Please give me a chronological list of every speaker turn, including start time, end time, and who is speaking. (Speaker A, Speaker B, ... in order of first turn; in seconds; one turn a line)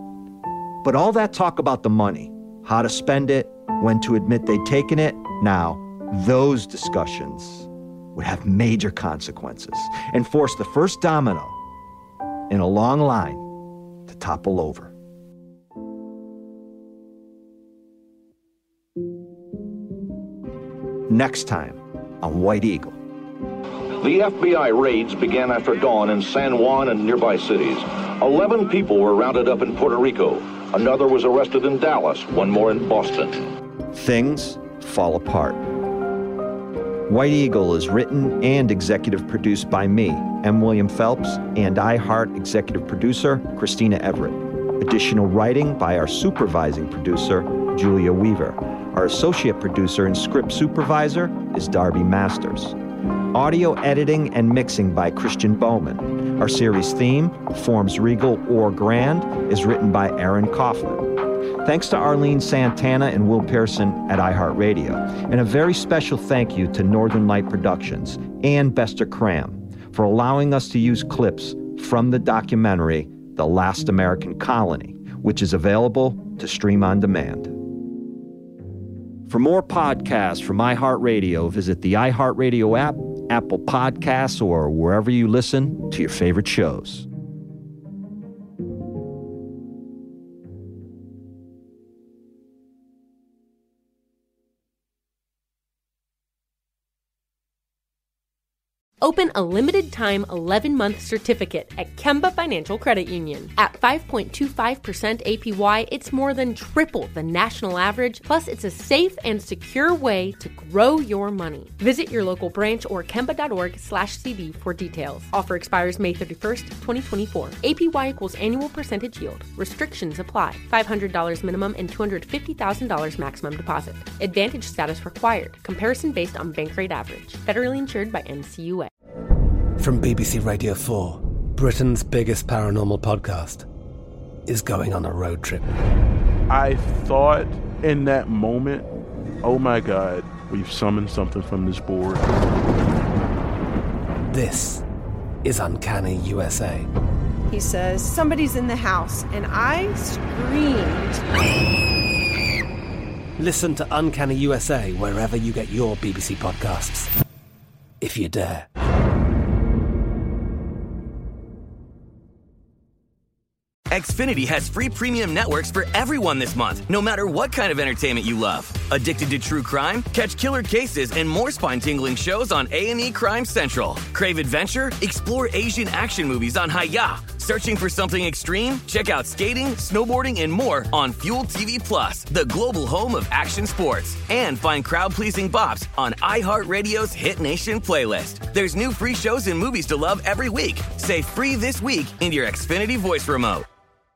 Speaker A: 0.8-11.6
Speaker A: 12.5-13.5
Speaker A: 14.1-14.9
Speaker A: 21.1-23.0
Speaker B: 24.0-33.4
Speaker A: 33.9-35.6
Speaker A: 37.1-52.8
Speaker A: 53.3-61.1
Speaker A: 61.6-77.6
Speaker A: 79.3-87.1
Speaker C: 99.0-128.9
Speaker D: 129.8-133.7
Speaker D: 134.4-135.7
Speaker E: 136.5-138.9
Speaker E: 139.4-142.3
Speaker D: 144.3-144.8
Speaker D: 145.4-146.9
Speaker F: 147.5-151.2
Speaker D: 153.4-157.1
Speaker D: 158.0-158.7
Speaker G: 163.9-193.7